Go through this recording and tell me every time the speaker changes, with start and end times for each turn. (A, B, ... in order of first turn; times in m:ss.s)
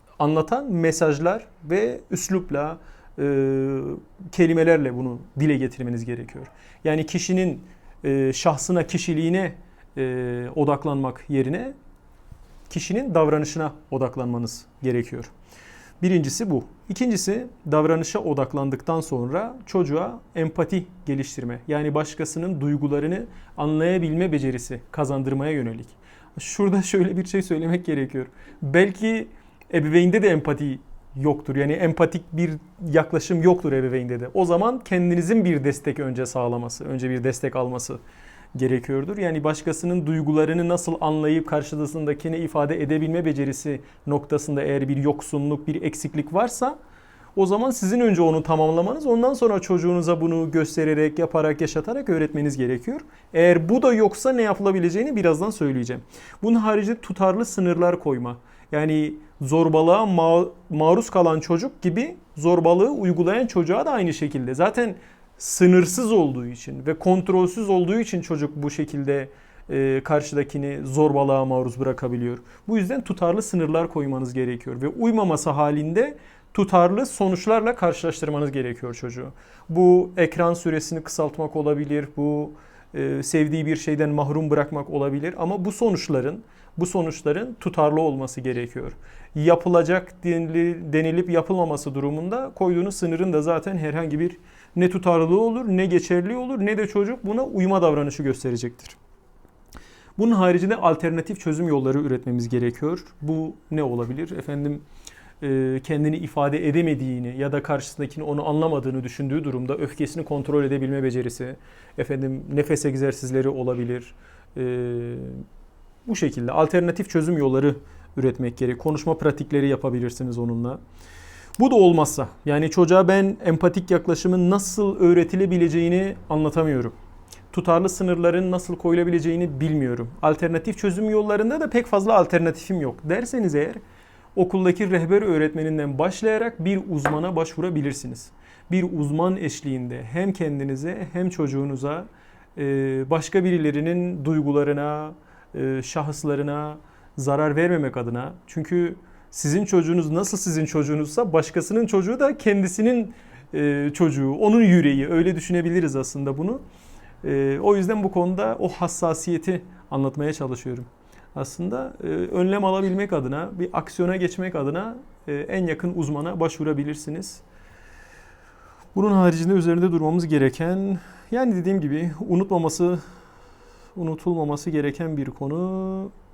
0:00.2-0:11.8 A
0:12.7-0:15.3 A
0:16.0-0:38.0 A
0:38.5-0:46.8 A
0:47.4-1:39.0 A
1:40.2-1:44.8 A
1:45.4-1:55.4 A
1:56.0-2:00.8 A
2:01.6-2:06.9 A
2:07.5-2:13.8 A
2:14.4-2:36.6 A
2:37.2-2:47.4 A
2:48.9-2:53.0 A
2:54.0-2:56.1 A